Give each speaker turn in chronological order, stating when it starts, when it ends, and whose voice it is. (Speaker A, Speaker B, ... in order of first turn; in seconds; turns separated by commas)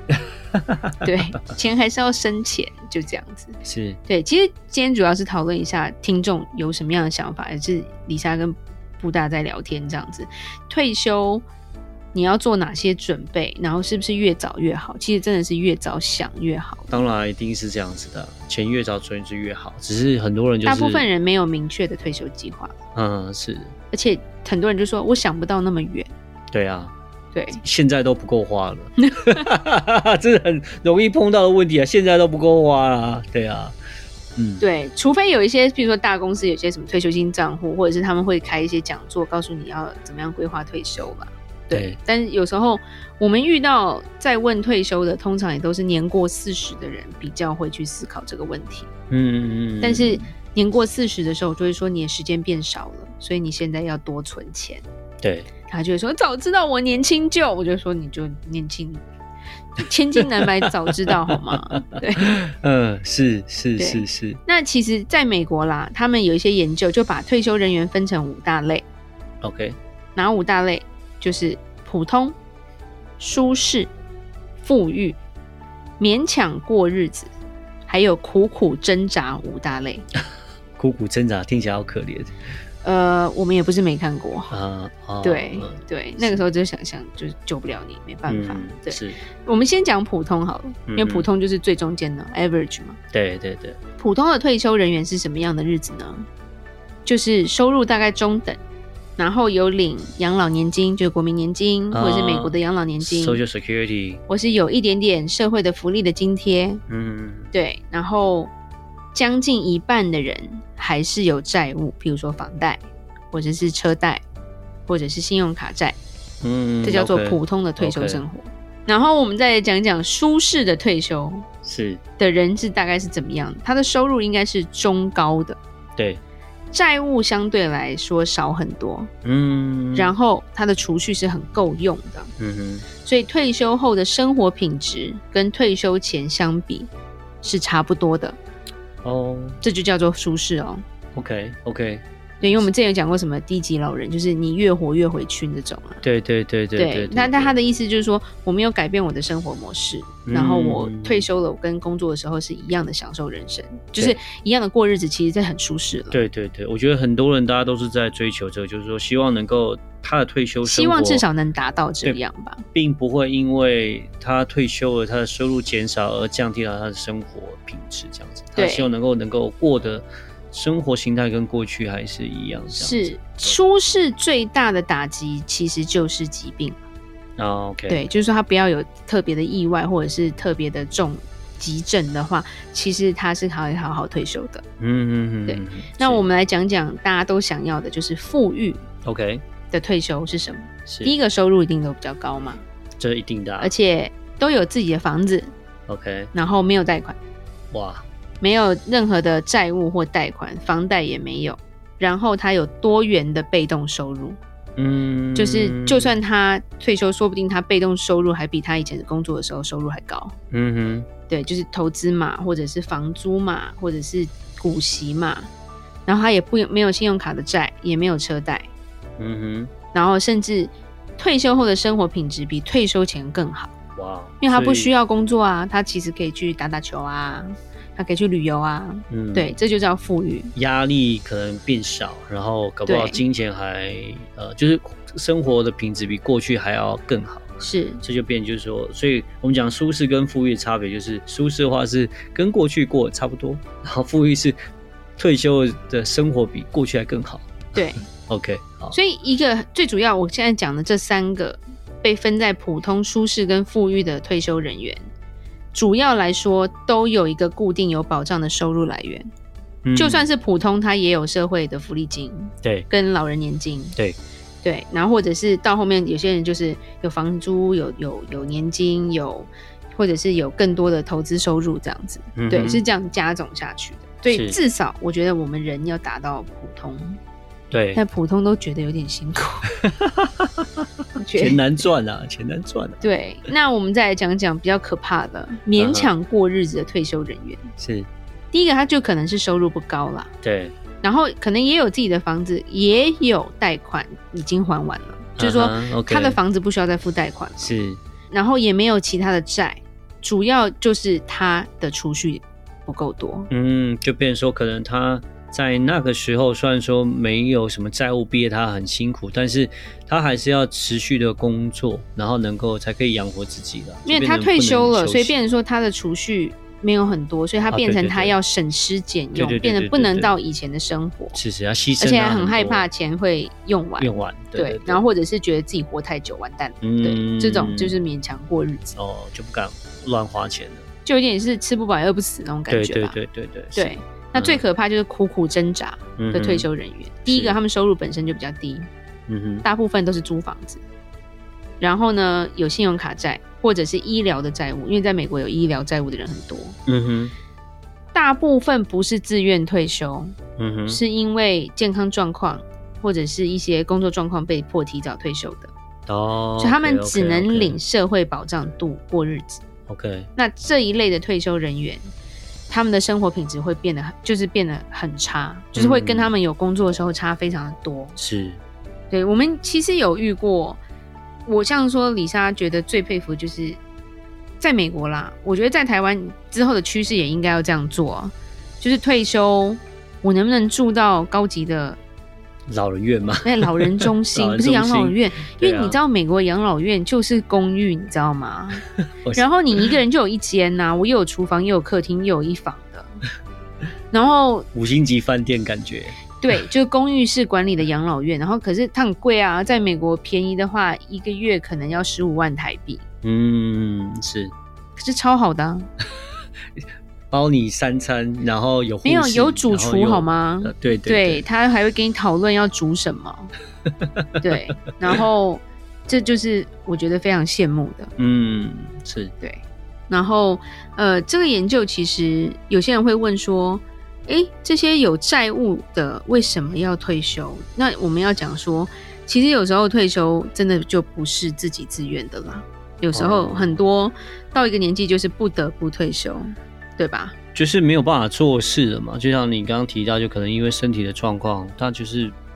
Speaker A: 0.5-0.9, Speaker B: 1.0-11.4, Speaker A: 3.6-4.0, Speaker B: 12.1-17.0, Speaker A: 16.9-21.1, Speaker B: 20.6-22.7, Speaker A: 22.9-23.7, Speaker B: 23.9-26.1, Speaker A: 26.5-26.9, Speaker B: 27.3-27.6, Speaker A: 27.5-33.8, Speaker B: 29.0-29.5, Speaker A: 34.4-34.6, Speaker B: 34.6-48.9, Speaker A: 41.7-42.0, Speaker A: 49.1-50.2, Speaker B: 49.8-54.8, Speaker A: 55.2-55.5, Speaker B: 55.7-59.0, Speaker B: 59.8-62.3, Speaker A: 60.2-61.3, Speaker A: 62.2-64.4, Speaker B: 63.8-68.8, Speaker A: 69.4-69.8, Speaker B: 70.1-72.3, Speaker B: 73.2-73.9, Speaker B: 74.6-75.2, Speaker B: 76.0-77.3, Speaker B: 77.9-80.1, Speaker A: 80.8-82.3, Speaker B: 82.8-84.5, Speaker A: 84.5-86.4, Speaker B: 85.2-93.0, Speaker A: 88.3-89.2, Speaker A: 90.9-91.3, Speaker A: 93.1-93.8, Speaker B: 94.0-96.3, Speaker B: 97.0-98.6, Speaker B: 99.2-103.4, Speaker A: 101.9-104.2, Speaker B: 104.3-106.8, Speaker A: 106.9-107.5, Speaker B: 107.5-108.5, Speaker B: 109.1-114.2, Speaker B: 114.9-116.0, Speaker A: 116.4-118.2, Speaker B: 116.8-121.5, Speaker A: 121.6-122.0, Speaker B: 122.2-125.6, Speaker B: 126.7-129.1, Speaker A: 129.2-130.1, Speaker B: 129.9-132.3, Speaker A: 132.4-132.8, Speaker B: 133.0-136.9, Speaker B: 137.4-138.4, Speaker A: 139.0-139.6, Speaker B: 139.6-140.8, Speaker A: 141.1-142.7, Speaker B: 142.4-146.0, Speaker A: 146.0-147.6, Speaker B: 146.8-156.2, Speaker A: 150.2-151.3, Speaker A: 156.1-161.2, Speaker B: 160.6-162.6, Speaker A: 162.7-173.6, Speaker B: 168.6-168.9, Speaker B: 172.7-176.8, Speaker A: 177.4-178.0, Speaker B: 177.9-184.6, Speaker A: 184.8-186.2, Speaker B: 185.5-188.8, Speaker A: 189.0-189.4, Speaker B: 189.7-192.6, Speaker A: 190.9-191.1, Speaker A: 193.0-193.7, Speaker B: 193.6-195.5, Speaker A: 195.9-196.3, Speaker B: 196.3-197.2, Speaker A: 197.7-198.0, Speaker B: 198.4-204.4, Speaker A: 204.8-206.2, Speaker B: 205.3-210.3, Speaker A: 210.5-211.1, Speaker B: 211.3-215.5, Speaker B: 216.1-218.7, Speaker A: 219.2-219.7, Speaker B: 219.9-223.7, Speaker A: 223.9-224.9, Speaker B: 224.4-230.5, Speaker A: 229.1-229.5, Speaker A: 230.5-237.5, Speaker B: 232.8-233.2, Speaker B: 237.6-238.0, Speaker A: 238.0-244.6, Speaker A: 245.2-248.9, Speaker B: 247.7-248.0, Speaker B: 248.9-255.1, Speaker B: 255.7-259.3, Speaker A: 259.8-260.3, Speaker B: 259.9-263.9, Speaker B: 264.6-277.2, Speaker A: 272.4-272.8, Speaker A: 274.3-274.6, Speaker A: 277.7-278.0, Speaker B: 277.9-279.7, Speaker A: 279.9-280.8, Speaker B: 281.1-281.6, Speaker A: 281.4-283.0, Speaker B: 283.0-287.7, Speaker A: 285.8-286.1, Speaker A: 287.8-288.1, Speaker B: 288.5-290.3, Speaker A: 290.4-290.8, Speaker B: 291.0-297.7, Speaker A: 295.4-296.4, Speaker A: 297.6-298.0, Speaker B: 298.3-303.5, Speaker A: 303.5-315.4, Speaker B: 314.0-321.4, Speaker A: 317.7-318.4, Speaker A: 319.3-320.3, Speaker A: 321.3-322.9, Speaker B: 322.0-328.9, Speaker A: 324.0-325.0, Speaker A: 326.8-328.0, Speaker A: 328.9-330.9, Speaker B: 331.0-333.2, Speaker A: 332.7-334.6, Speaker B: 333.7-338.9, Speaker A: 336.2-336.7, Speaker A: 337.3-337.6, Speaker A: 339.3-339.6, Speaker B: 339.6-340.8, Speaker B: 341.8-346.8, Speaker A: 346.9-347.3, Speaker B: 348.1-355.7, Speaker A: 350.6-351.0, Speaker A: 356.1-357.8, Speaker B: 356.6-359.6, Speaker A: 359.9-360.3, Speaker B: 360.4-362.1, Speaker B: 362.7-368.2, Speaker A: 365.7-366.3, Speaker A: 368.2-368.6, Speaker B: 369.1-370.8, Speaker B: 371.4-373.8, Speaker B: 374.6-382.0, Speaker A: 382.7-386.0, Speaker B: 383.4-388.8, Speaker A: 389.2-389.9, Speaker B: 389.3-393.1, Speaker B: 394.1-394.7, Speaker A: 394.7-396.2, Speaker B: 396.4-403.0, Speaker A: 403.2-404.5, Speaker B: 404.9-405.9, Speaker A: 407.3-411.4, Speaker B: 409.0-413.5, Speaker B: 414.4-418.1, Speaker A: 418.2-419.3, Speaker B: 419.4-437.3, Speaker A: 433.1-433.8, Speaker A: 437.5-442.4